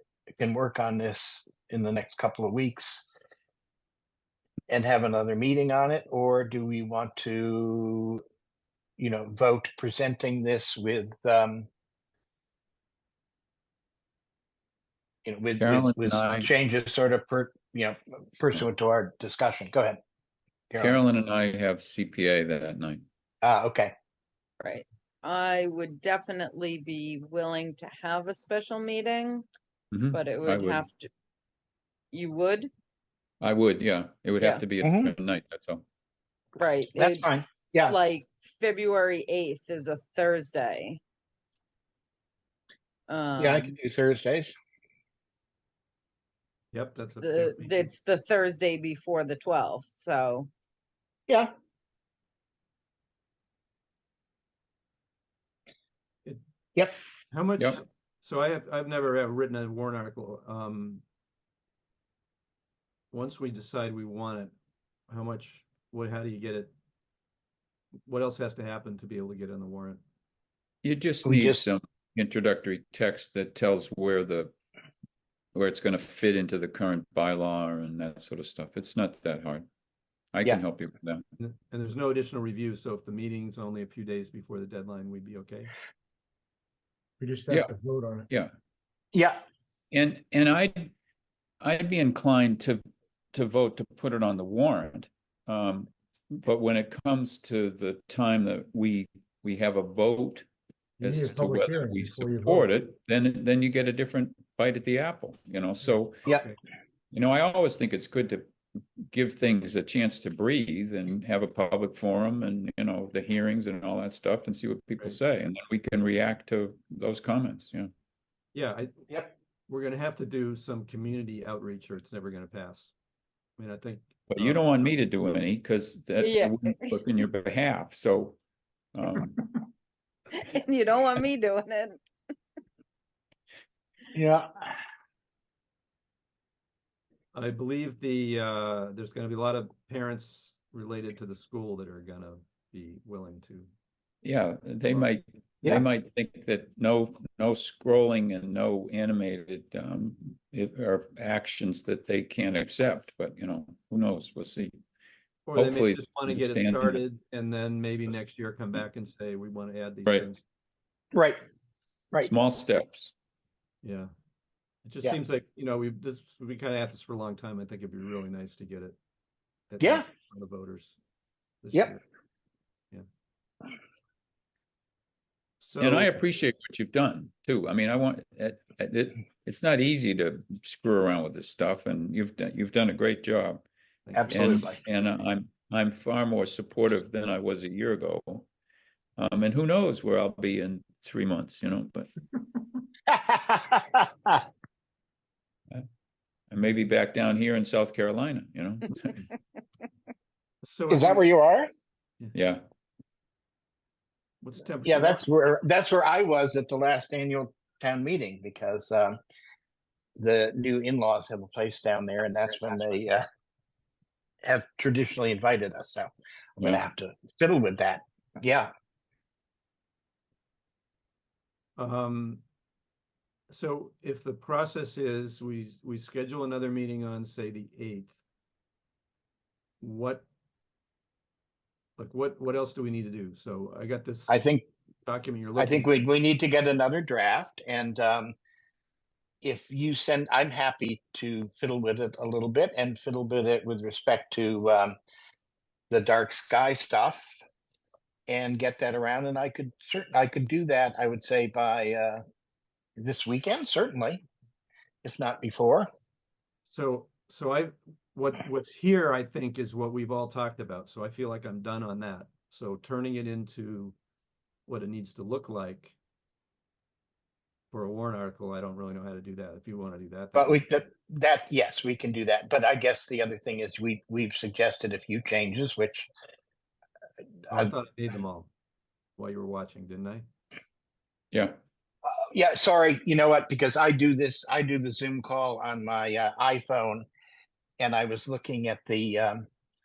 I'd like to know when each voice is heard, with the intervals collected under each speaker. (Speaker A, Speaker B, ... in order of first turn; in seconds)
Speaker A: 0.4-3.0, 4.7-8.2, 9.0-11.7, 15.2-20.0, 20.7-21.0, 23.4-23.9, 34.8-35.1, 36.9-38.0, 43.4-44.5, 71.2-71.6, 89.1-89.4, 134.1-134.7, 161.1-161.4, 169.8-170.1, 184.1-184.8, 193.1-194.4, 200.9-201.7, 204.8-209.2, 210.2-213.2, 214.4-218.7, 234.3-234.6, 235.6-238.3, 239.4-244.9, 245.9-247.3, 248.3-252.2, 253.0-254.2, 255.0-255.9, 270.3-276.1, 282.2-287.1, 287.8-289.5
Speaker B: 15.6-16.5, 20.8-23.0, 29.9-30.9, 33.4-35.8, 70.8-74.5, 75.5-79.7, 80.3-81.2, 89.9-90.9, 91.6-100.5, 101.0-106.2, 107.1-108.5, 109.1-117.9, 124.3-128.4, 128.9-129.4, 144.2-154.7, 155.5-157.0, 162.2-163.1, 175.8-183.6, 184.3-188.5, 189.2-192.1, 196.5-199.2, 202.3-202.6, 216.6-216.9, 281.3-281.6
Speaker C: 24.6-29.4, 30.1-31.1, 32.1-32.7, 36.6-37.3, 37.9-41.0, 43.1-43.7, 47.2-50.5, 126.2-126.9, 130.3-132.0
Speaker D: 46.7-47.9, 57.3-61.0, 63.1-64.5, 65.1-66.7, 68.0-70.0, 81.4-85.7, 106.2-106.6, 118.5-119.0, 119.7-122.9, 123.6-124.8, 137.3-143.7, 155.5-160.4, 163.8-164.1, 164.8-168.9, 169.7-171.0, 171.6-172.0, 175.6-176.2, 184.1-184.6, 200.6-201.2, 204.4-205.2, 221.8-222.4, 223.5-228.1, 229.8-230.2, 232.0-234.4, 235.1-236.0, 256.6-263.9, 264.7-265.9, 267.7-270.6, 277.5-278.5, 279.2-280.2
Speaker E: 87.2-88.3, 101.0-102.7